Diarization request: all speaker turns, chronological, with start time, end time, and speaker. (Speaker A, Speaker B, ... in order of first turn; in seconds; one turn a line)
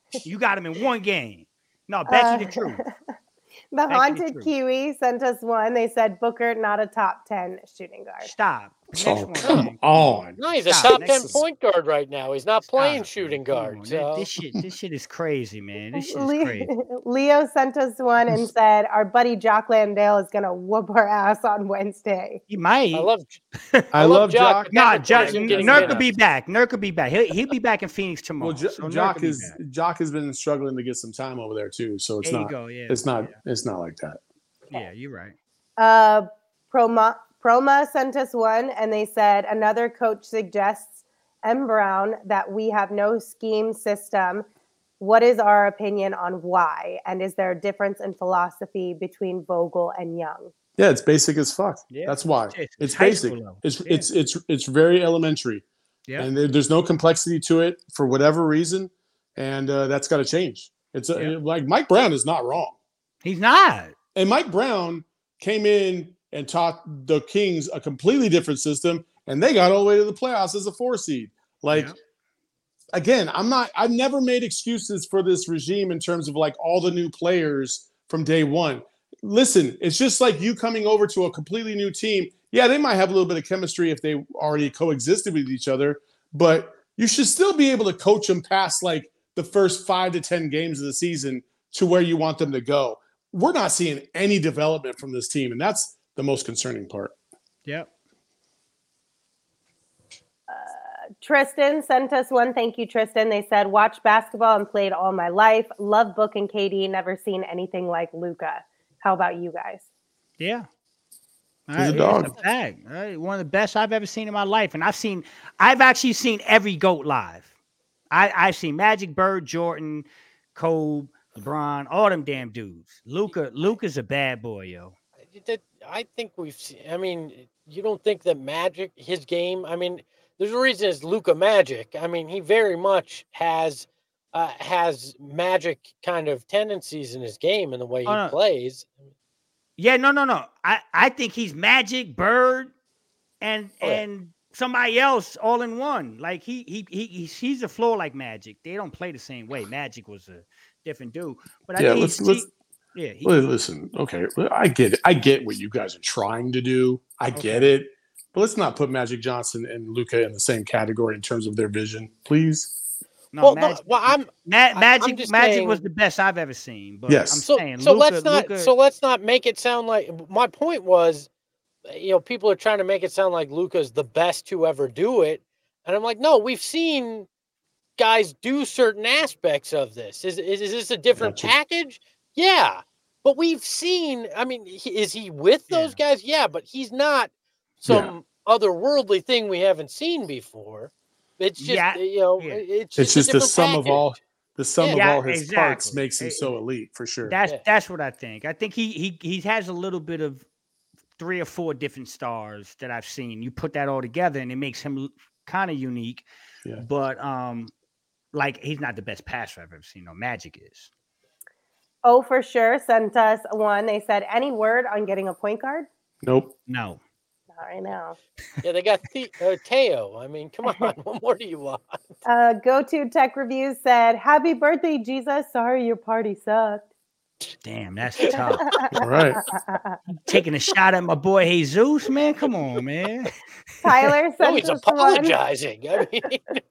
Speaker A: 0.2-2.8
Speaker B: 2.1-3.1
Speaker B: 3.7-8.3
Speaker A: 3.9-4.5
Speaker A: 8.2-11.4
Speaker C: 8.9-11.4
Speaker D: 10.4-14.2
Speaker A: 12.7-16.7
Speaker B: 15.9-22.4
Speaker A: 22.5-23.1
Speaker D: 22.9-23.4
Speaker A: 23.6-23.9
Speaker C: 23.9-26.0
Speaker D: 23.9-26.1
Speaker A: 24.7-29.6
Speaker C: 28.4-34.2
Speaker A: 32.2-33.4
Speaker A: 34.7-35.4
Speaker B: 35.8-44.5
Speaker B: 45.0-50.5
Speaker C: 50.8-55.6
Speaker A: 51.9-54.1
Speaker C: 56.2-62.8
Speaker A: 63.2-63.9
Speaker C: 64.1-71.9
Speaker C: 72.9-97.1
Speaker B: 100.5-109.8
Speaker A: 110.4-110.7
Speaker A: 111.7-117.5
Speaker C: 111.8-112.3
Speaker D: 112.2-112.5
Speaker A: 118.1-124.9
Speaker D: 125.3-138.9
Speaker A: 138.1-138.3
Speaker A: 139.8-142.7
Speaker A: 143.4-153.4
Speaker C: 151.8-152.5
Speaker C: 153.2-162.7
Speaker A: 157.4-157.7
Speaker A: 163.3-168.7
Speaker D: 163.4-165.8
Speaker C: 167.1-167.4
Speaker D: 167.5-171.3
Speaker D: 171.8-177.3
Speaker D: 178.0-194.1
Speaker C: 181.2-181.5
Speaker A: 185.7-186.0
Speaker C: 187.9-188.1
Speaker A: 191.6-192.6
Speaker C: 193.0-197.3
Speaker D: 194.8-195.1
Speaker A: 194.9-196.5
Speaker A: 197.2-200.4
Speaker A: 201.2-206.2
Speaker A: 206.8-207.7
Speaker A: 208.3-210.9
Speaker B: 212.0-215.9
Speaker C: 216.2-216.5
Speaker A: 216.7-217.0
Speaker B: 217.5-218.2
Speaker D: 218.6-222.2
Speaker B: 222.2-226.8
Speaker A: 227.6-228.7
Speaker B: 228.3-230.0
Speaker C: 228.9-229.4
Speaker A: 230.1-233.3
Speaker B: 233.8-235.3
Speaker D: 234.4-236.6